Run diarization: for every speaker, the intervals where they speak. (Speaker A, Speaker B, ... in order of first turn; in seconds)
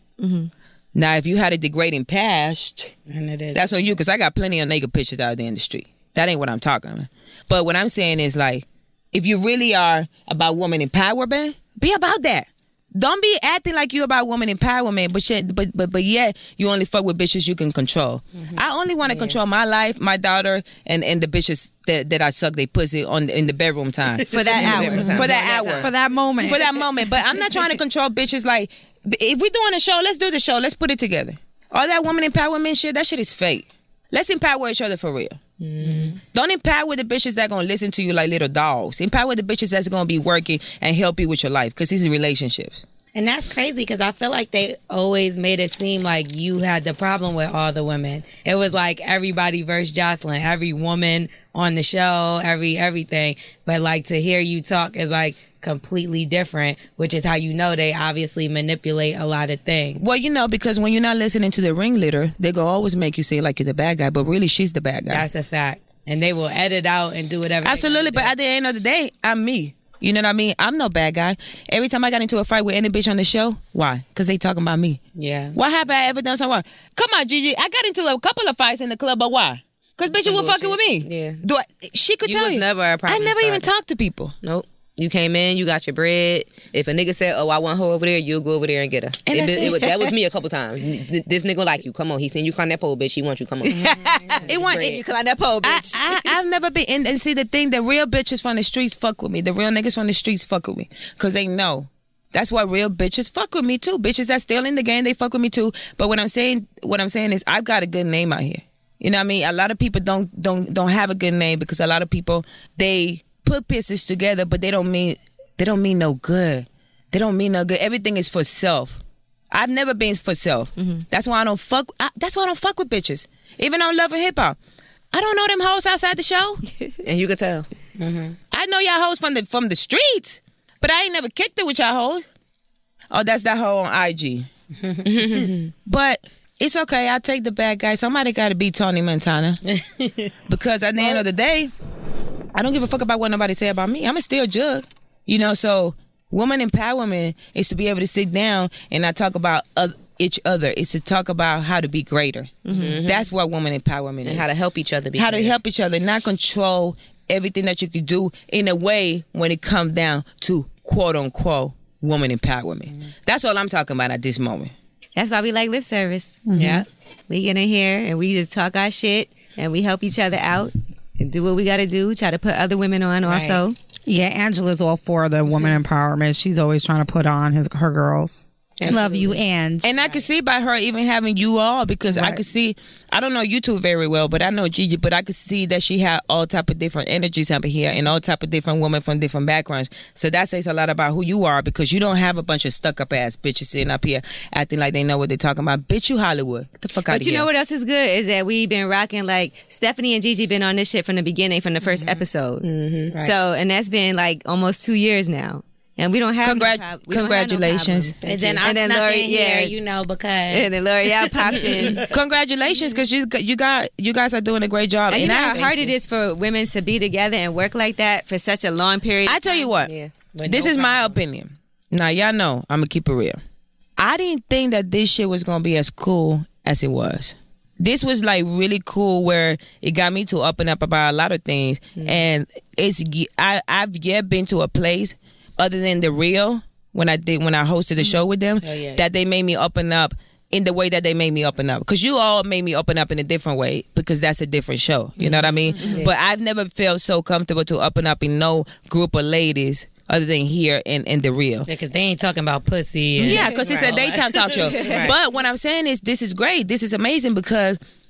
Speaker A: 0.2-0.5, 24.3-25.2, 89.6-89.9, 93.7-96.3, 152.6-153.0, 165.2-166.4, 167.3-173.7, 197.1-209.7, 210.5-212.0, 215.1-219.7, 253.3-253.5, 254.7-255.0
Speaker B: 0.9-2.9, 3.5-35.4, 36.2-42.8, 60.0-65.2, 67.6-75.0, 75.5-84.3, 89.2-89.9, 94.5-95.0, 95.6-124.6, 125.1-126.6, 128.5-132.2, 133.1-134.5, 135.8-139.6, 140.4-141.7, 142.5-154.5, 155.2-164.7, 179.8-197.5, 206.4-208.1, 212.1-215.9, 219.2-219.9, 220.4-223.4, 224.0-251.7, 253.2-257.8
Speaker C: 3.1-3.7, 24.7-25.0, 35.8-36.2, 43.1-60.0, 65.1-68.3, 75.1-75.5, 128.0-128.3, 134.8-135.5, 139.7-140.3, 166.6-166.8, 173.2-173.6, 201.9-202.2, 208.2-210.7, 211.2-212.1, 220.3-221.2, 251.7-255.1
Speaker D: 24.4-25.9, 35.6-36.1, 80.2-81.4, 82.2-83.7, 84.4-95.0, 127.0-127.7, 135.1-135.7, 152.7-153.3, 154.2-155.5, 178.8-179.4, 202.6-203.1, 208.2-208.6, 219.8-220.1, 238.7-239.0, 254.8-255.1
Speaker E: 25.8-26.6, 166.5-166.8, 174.1-179.9, 182.1-182.4